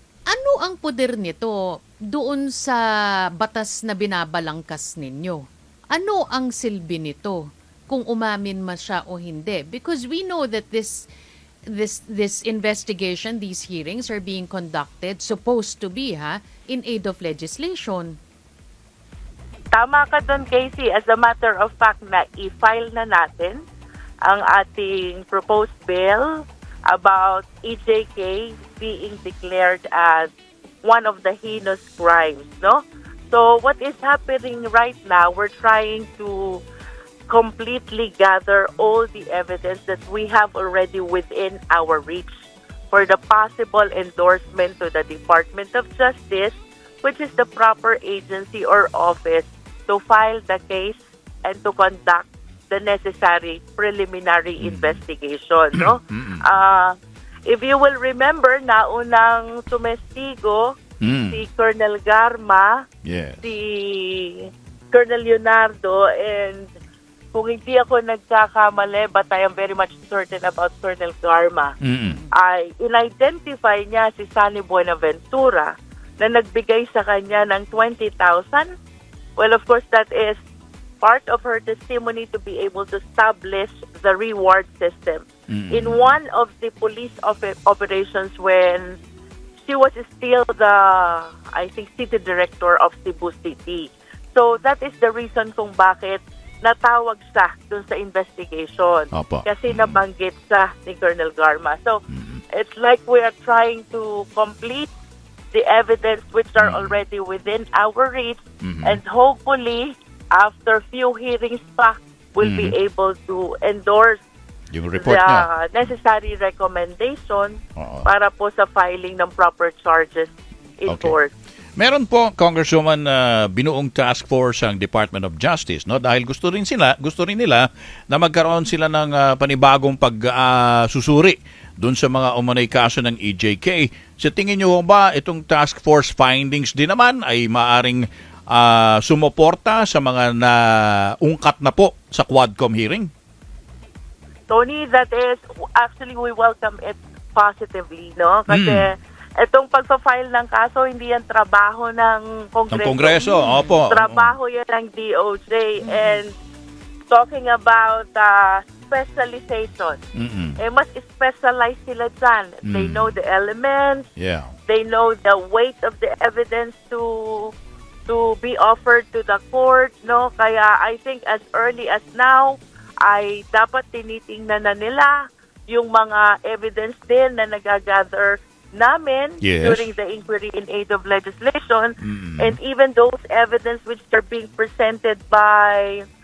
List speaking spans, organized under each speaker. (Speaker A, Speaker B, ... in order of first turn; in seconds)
Speaker A: 0.3-1.5, 2.1-2.8, 3.4-11.1, 11.7-18.2, 153.3-153.8, 155.8-156.2
Speaker B: 19.7-23.6, 24.2-30.3, 30.8-36.6, 37.3-42.3, 42.9-57.0, 57.5-60.7, 61.3-62.8, 63.4-66.7, 67.3-71.7, 72.3-78.7, 79.4-80.4, 81.0-89.0, 89.7-102.0, 102.5-104.9, 105.5-114.2, 115.0-121.3, 144.5-156.3, 157.1-160.0, 160.6-164.1, 164.7-167.5, 168.1-175.2, 175.7-186.0
Speaker C: 54.6-55.0, 55.8-56.4, 61.0-61.4, 63.0-63.4, 71.8-72.2, 85.5-86.2, 99.1-100.0, 102.1-102.4, 106.6-107.0, 108.6-109.0, 112.4-112.7, 114.7-115.5, 117.8-118.1, 120.8-121.2, 121.8-143.1, 148.5-148.9, 152.7-154.3, 160.2-160.6, 162.7-163.2, 164.2-164.5, 179.4-179.9, 182.0-182.6